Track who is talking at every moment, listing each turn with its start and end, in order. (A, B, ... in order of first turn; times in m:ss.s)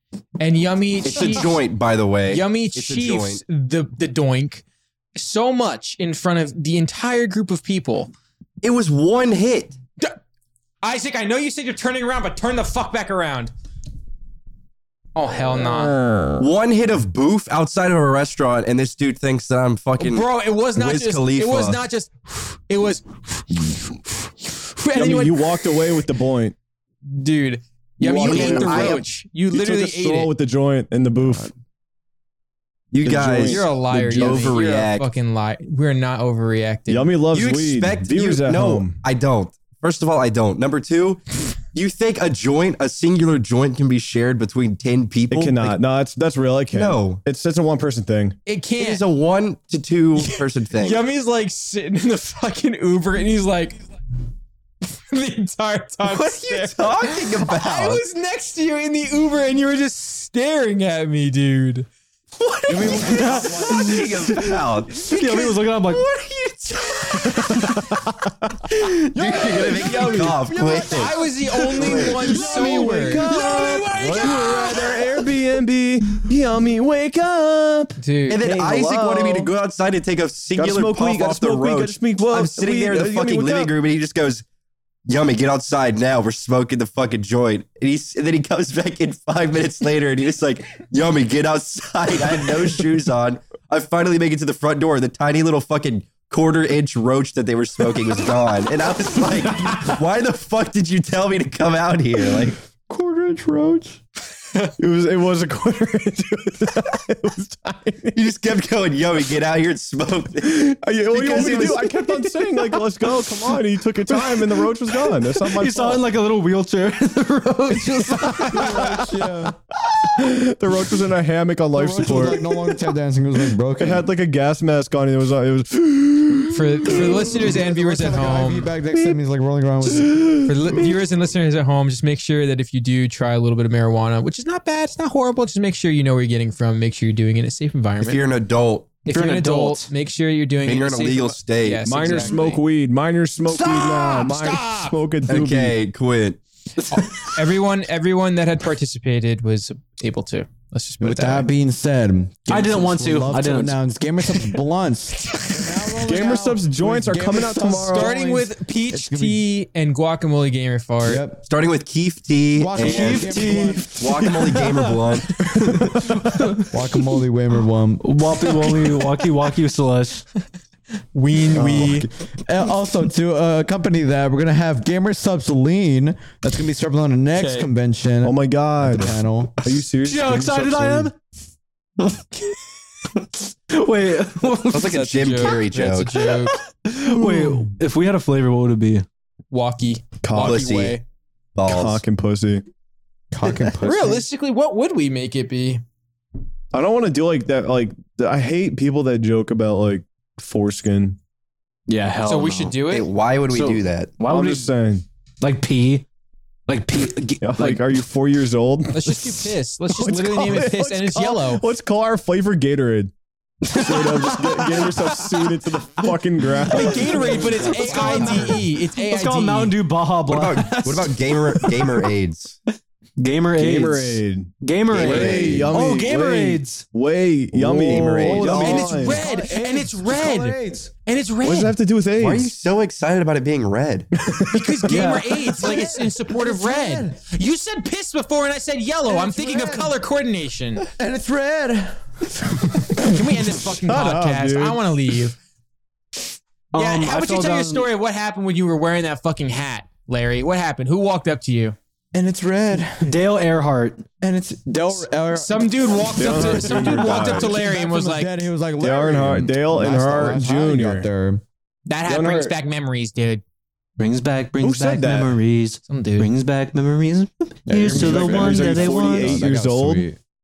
0:00.4-0:01.6 A
0:01.0-0:03.4 B
0:02.3-0:04.6 A
0:05.2-0:08.1 A
0:08.6-0:09.8 B
0:10.8-0:13.5 A
0:15.1-0:16.0 A
0:15.6-0:16.4 C
0:16.4-0:21.8 B
0:20.0-0:25.9 A
0:24.9-0:26.6 C
0:27.0-0:30.3 A
0:28.0-0:31.5 C
0:28.2-0:29.0 B
0:32.9-0:35.1 B
0:33.0-0:34.6 C
0:33.4-0:37.1 A
0:36.9-0:39.0 C
0:37.3-0:45.8 B
0:45.3-0:48.4 C
0:46.7-0:47.2 B
0:48.4-0:49.0 A
0:48.8-0:51.0 B
0:50.2-0:53.8 A
0:54.9-1:01.9 A
0:56.0-0:58.0 B
1:02.4-1:04.4 A
1:02.7-1:03.9 D
1:02.8-1:05.0 B
1:02.9-1:06.0 E
1:05.0-1:07.8 A
1:07.5-1:08.5 C
1:08.7-1:12.6 B
1:09.3-1:11.1 D
1:09.8-1:10.4 C
1:10.9-1:14.8 A
1:11.6-1:19.5 C
1:12.2-1:14.3 D
1:13.1-1:14.8 E
1:18.0-1:18.4 A
1:18.3-1:24.4 B
1:20.6-1:23.7 C
1:25.0-1:42.6 B
1:42.9-1:44.0 D
1:44.8-1:48.2 C
1:48.1-1:50.7 B
1:50.4-1:56.0 C
1:51.2-1:52.3 E
1:51.4-1:51.7 B
1:55.2-1:59.0 E
1:58.1-1:59.6 D
1:58.2-1:59.1 C
1:59.9-2:02.6 C
2:01.7-2:04.1 D
2:03.8-2:07.4 C
2:06.5-2:08.7 A
2:07.4-2:10.8 D
2:08.9-2:09.2 C
2:10.4-2:18.2 A
2:18.0-2:18.9 B
2:19.0-2:22.6 A
2:19.1-2:19.9 E
2:20.6-2:22.4 B
2:21.8-2:25.8 C
2:23.5-2:25.0 A
2:25.3-2:26.4 B
2:26.8-2:27.4 E
2:26.9-2:31.5 A
2:31.0-2:39.5 D
2:32.5-2:33.8 E
2:36.0-2:38.1 C
2:37.7-2:41.2 A
2:41.0-2:41.4 D
2:41.4-2:45.3 B
2:42.5-2:43.9 D
2:42.8-2:46.7 E
2:45.7-2:46.1 C
2:46.7-2:48.2 D
2:48.0-2:50.3 E
2:51.1-2:52.1 A
2:51.6-2:59.6 D
2:51.6-2:52.0 C
2:57.3-2:57.7 A
2:58.2-3:01.1 C
3:00.0-3:01.2 E
3:02.0-3:02.5 E
3:03.1-3:05.1 E
3:04.7-3:06.3 B
3:04.8-3:06.6 A
3:06.5-3:09.0 E
3:07.2-3:07.7 C
3:09.5-3:11.0 A
3:10.2-3:10.7 C
3:10.3-3:11.0 B
3:11.6-3:12.0 B
3:11.7-3:12.6 C
3:13.3-3:14.3 D
3:13.8-3:15.8 A
3:16.7-3:21.2 C
3:21.9-3:22.8 E
3:22.2-3:23.1 A
3:22.9-3:24.2 B
3:23.5-3:24.7 E
3:24.2-3:25.0 C
3:25.4-3:26.0 E
3:26.7-3:28.0 E
3:27.4-3:29.1 C
3:28.9-3:31.6 A
3:29.9-3:33.1 C
3:33.6-3:35.6 E
3:33.7-3:38.4 C
3:36.6-3:42.1 E
3:36.7-3:39.8 A
3:37.0-3:38.6 D
3:40.3-3:42.6 B
3:43.2-3:46.9 E
3:43.6-3:49.2 C
3:44.9-3:45.7 B
3:47.5-3:48.8 B
3:47.8-3:49.2 E
3:48.6-3:51.8 A
3:49.0-3:50.9 D
3:51.4-3:52.5 C
3:52.2-3:54.1 B
3:54.1-3:55.0 C
3:54.5-4:00.9 A
3:54.9-3:55.6 E
3:55.6-3:57.2 D
3:59.1-3:59.9 D
4:00.8-4:03.1 D
4:03.0-4:05.4 A
4:03.8-4:04.8 C
4:06.7-4:07.9 E
4:06.7-4:11.8 A
4:12.1-4:13.1 D
4:13.0-4:14.0 E
4:14.2-4:21.4 D
4:15.3-4:18.3 A
4:16.1-4:17.6 C
4:18.8-4:21.1 C
4:21.9-4:23.4 A
4:22.0-4:22.6 C
4:24.0-4:29.3 E
4:24.6-4:25.4 C
4:25.9-4:26.3 A
4:27.7-4:30.2 D
4:27.8-4:30.1 C